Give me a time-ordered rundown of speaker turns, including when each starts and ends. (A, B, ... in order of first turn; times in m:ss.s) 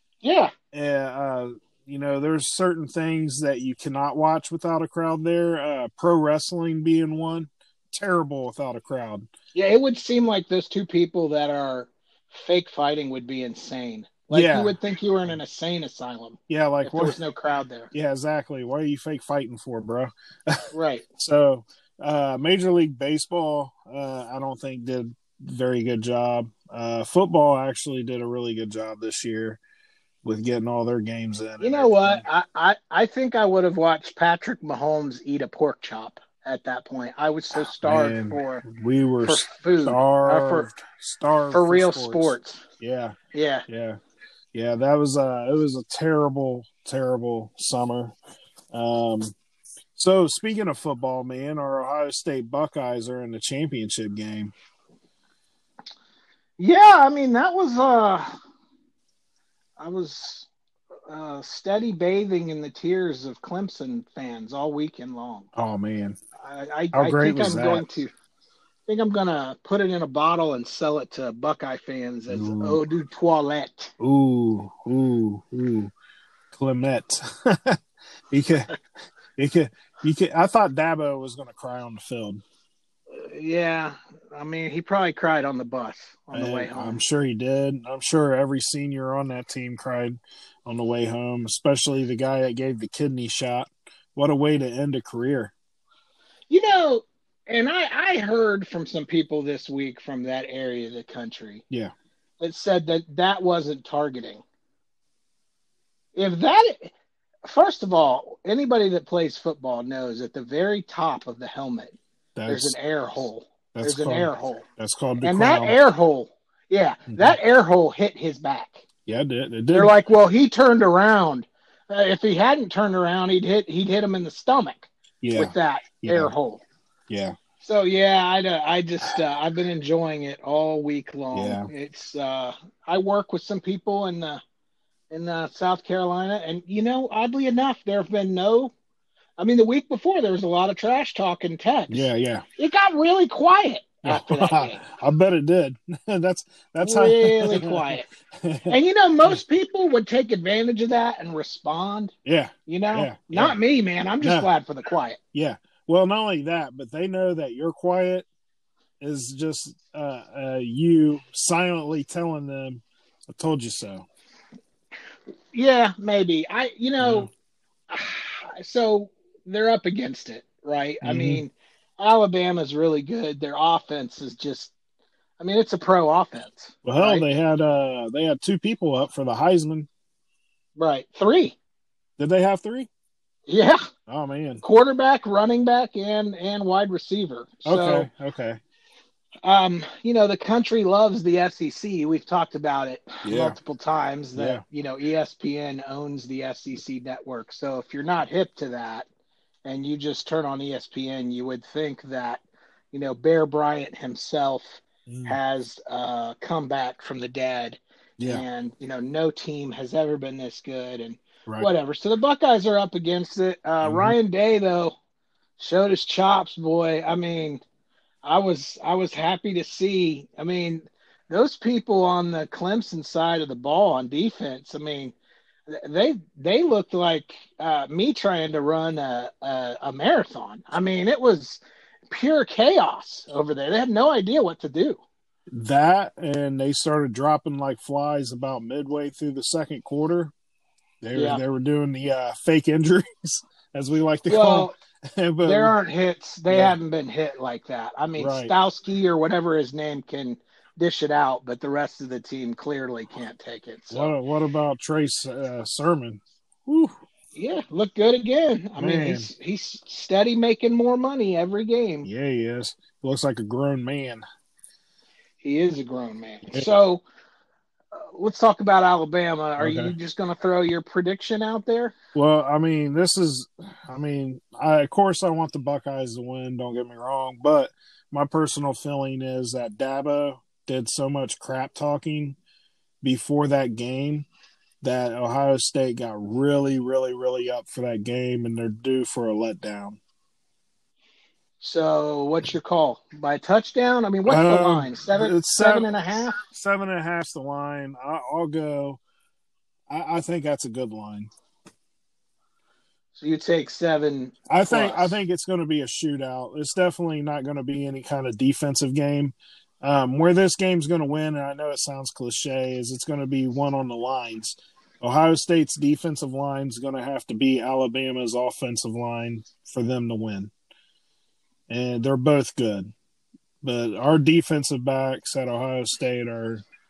0:00.2-0:00.5 A
0:00.7-0:09.3 B
0:09.5-0:17.9 A
0:14.3-0:14.7 B
0:16.5-0:17.2 B
0:17.9-0:20.6 B
0:20.7-0:21.0 A
0:21.2-0:29.6 B
0:30.2-0:32.2 B
0:31.6-0:38.6 A
0:37.6-0:43.2 B
0:39.2-0:40.7 A
0:41.5-0:42.6 A
0:43.3-0:43.6 A
0:43.7-0:44.0 B
0:44.5-0:48.1 B
0:48.7-0:49.3 B
0:50.0-0:54.5 B
0:56.6-0:58.3 A
0:59.8-1:00.5 A
1:01.1-1:05.5 A
1:05.6-1:06.2 B
1:06.4-1:08.1 A
1:06.9-1:08.0 B
1:08.9-1:13.9 A
1:12.3-1:12.8 B
1:14.0-1:15.9 B
1:16.5-1:17.8 B
1:18.3-1:18.7 B
1:19.4-1:22.4 B
1:23.1-1:27.0 A
1:26.3-1:35.5 B
1:36.5-1:41.6 A
1:42.4-1:44.4 A
1:46.1-1:46.9 A
1:47.4-1:54.6 A
1:52.4-1:52.8 B
1:53.7-1:55.8 B
1:55.2-1:58.8 A
1:57.1-1:57.4 B
1:59.0-1:59.9 B
1:59.7-2:06.6 A
2:05.2-2:06.3 B
2:07.1-2:07.4 B
2:07.6-2:14.4 A
2:11.3-2:11.7 B
2:15.1-2:18.7 A
2:19.4-2:24.8 A
2:21.9-2:22.4 B
2:24.0-2:29.4 B
2:26.8-2:28.1 A
2:28.7-2:32.1 A
2:32.2-2:33.6 B
2:32.7-2:35.2 A
2:34.2-2:34.5 B
2:35.3-2:38.2 B
2:39.0-2:44.0 B
2:45.5-2:47.3 A
2:47.0-2:47.3 B
2:47.9-2:54.7 A
2:51.0-2:51.4 B
2:55.4-2:57.2 A
2:56.8-2:59.9 B
3:00.8-3:01.6 A
3:02.2-3:02.9 B
3:03.5-3:03.8 A
3:04.1-3:04.6 B
3:04.6-3:08.1 A
3:07.6-3:08.6 B
3:09.4-3:19.1 A
3:13.2-3:13.6 B
3:14.4-3:14.6 B
3:19.6-3:35.0 A
3:25.1-3:25.4 B
3:33.8-3:34.2 B
3:35.6-3:37.6 A
3:38.2-3:45.1 A
3:45.7-3:55.0 A
3:55.5-4:00.3 B
4:01.0-4:05.7 B
4:01.1-4:01.4 A
4:04.3-4:04.7 A
4:05.4-4:14.1 A
4:06.5-4:06.8 B
4:08.2-4:08.5 B
4:13.9-4:17.0 B
4:17.3-4:22.1 A
4:18.8-4:19.3 B
4:22.0-4:24.2 B
4:25.4-4:27.0 A
4:27.9-4:31.9 A
4:29.6-4:29.9 B
4:32.1-4:42.4 B
4:43.0-4:44.3 B
4:44.8-4:50.0 B
4:51.6-4:56.4 A
4:54.2-4:55.9 B
4:56.4-4:59.0 B
4:59.9-5:01.3 B
5:03.2-5:05.2 A
5:04.5-5:20.5 B
5:21.7-5:22.9 B
5:23.6-5:26.6 B